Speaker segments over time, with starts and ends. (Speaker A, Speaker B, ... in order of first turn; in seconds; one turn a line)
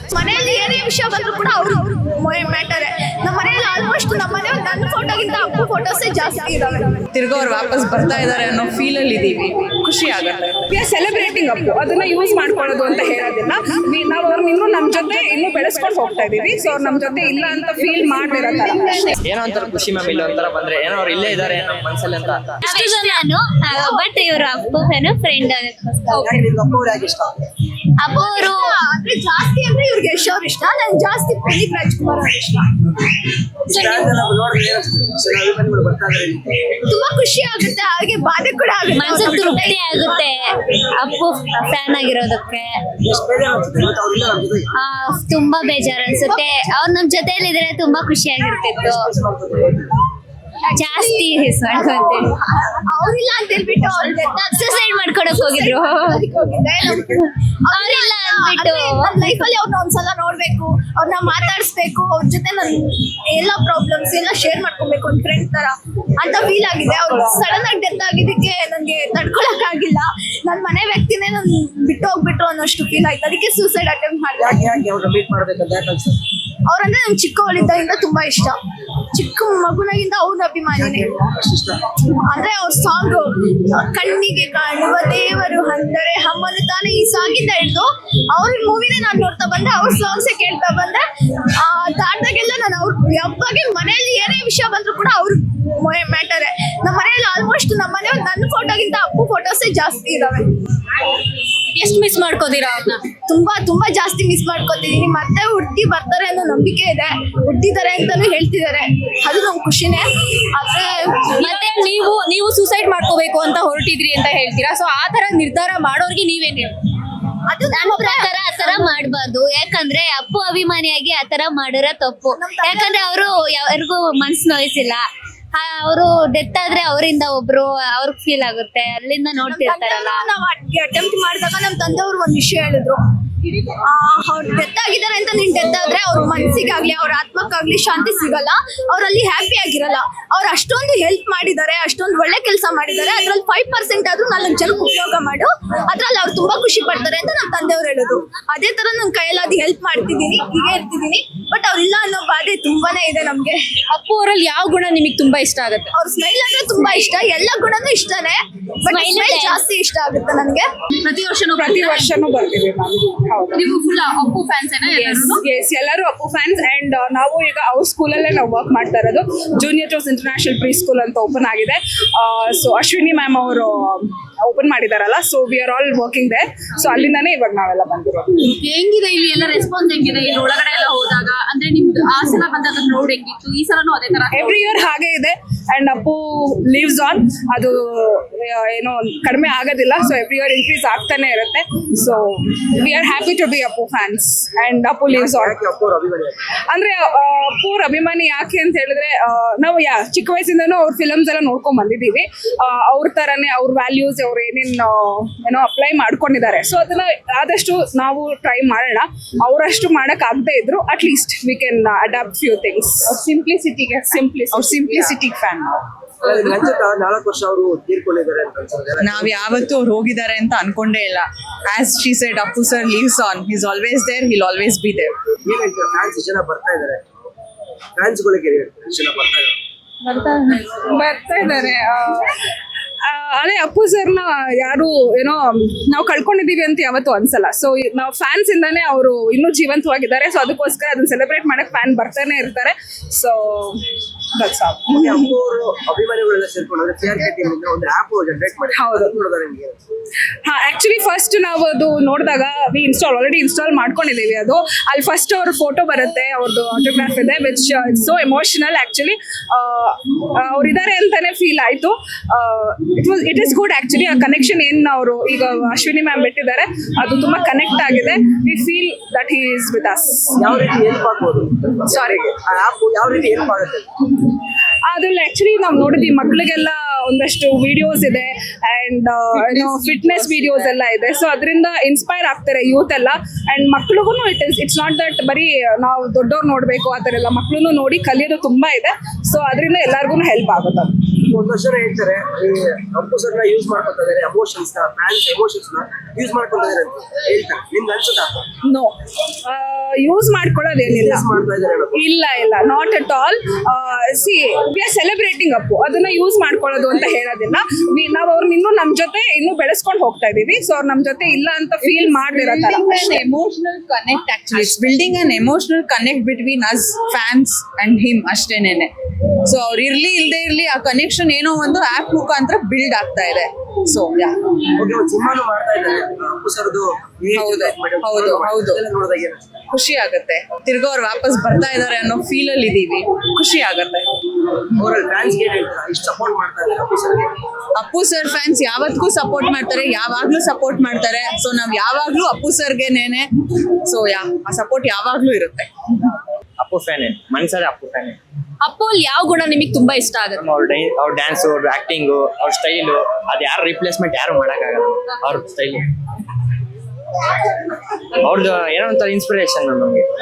Speaker A: 0.1-7.0
Speaker B: 7.1-10.6
Speaker C: 10.7-19.1
Speaker D: 19.2-22.6
Speaker E: 22.6-26.4
Speaker F: 26.1-27.4
Speaker E: 28.0-28.8
Speaker A: 28.1-32.6
Speaker F: 33.6-36.7
Speaker A: 36.9-39.8
Speaker E: 38.9-42.8
Speaker F: 43.0-44.7
Speaker E: 44.7-49.1
Speaker F: 48.8-50.0
Speaker A: 50.6-74.7
Speaker E: 50.7-52.3
Speaker E: 54.1-56.2
Speaker E: 57.7-59.4
Speaker F: 74.4-76.2
Speaker A: 76.7-78.5
Speaker A: 79.1-81.1
Speaker F: 80.7-81.8
Speaker A: 82.2-91.0
Speaker A: 91.6-100.5
Speaker G: 101.7-103.1
Speaker A: 103.3-111.5
Speaker G: 111.3-116.8
Speaker A: 117.5-118.8
Speaker E: 117.7-125.0
Speaker A: 122.3-123.2
Speaker E: 125.5-130.2
Speaker A: 129.5-133.0
Speaker A: 133.8-153.6
Speaker G: 153.9-155.9
Speaker A: 155.9-160.7
Speaker E: 158.9-159.6
Speaker G: 161.0-162.1
Speaker C: 161.5-163.7
Speaker G: 163.5-165.4
Speaker C: 164.8-178.4
Speaker G: 178.4-184.7
Speaker C: 184.3-195.6
Speaker F: 195.1-196.4
Speaker C: 196.7-213.1
Speaker B: 213.0-215.8
Speaker C: 214.1-215.2
Speaker F: 216.2-219.4
Speaker B: 219.0-225.1
Speaker F: 225.4-227.0
Speaker F: 227.9-229.5
Speaker C: 230.0-245.3
Speaker F: 244.9-249.8
Speaker C: 248.7-249.2
Speaker C: 250.4-270.4
Speaker F: 270.4-273.9
Speaker C: 271.9-272.2
Speaker C: 274.9-290.9
Speaker F: 291.2-298.4
Speaker C: 298.6-301.2
Speaker F: 300.8-302.0
Speaker C: 301.9-313.2
Speaker B: 312.3-318.9
Speaker B: 319.4-324.4
Speaker F: 324.8-329.6
Speaker B: 327.3-328.8
Speaker B: 329.7-334.1
Speaker F: 334.7-337.4
Speaker B: 337.8-343.3
Speaker B: 343.8-345.7
Speaker D: 346.6-348.2
Speaker G: 348.6-350.4
Speaker D: 350.4-355.9
Speaker D: 358.2-360.1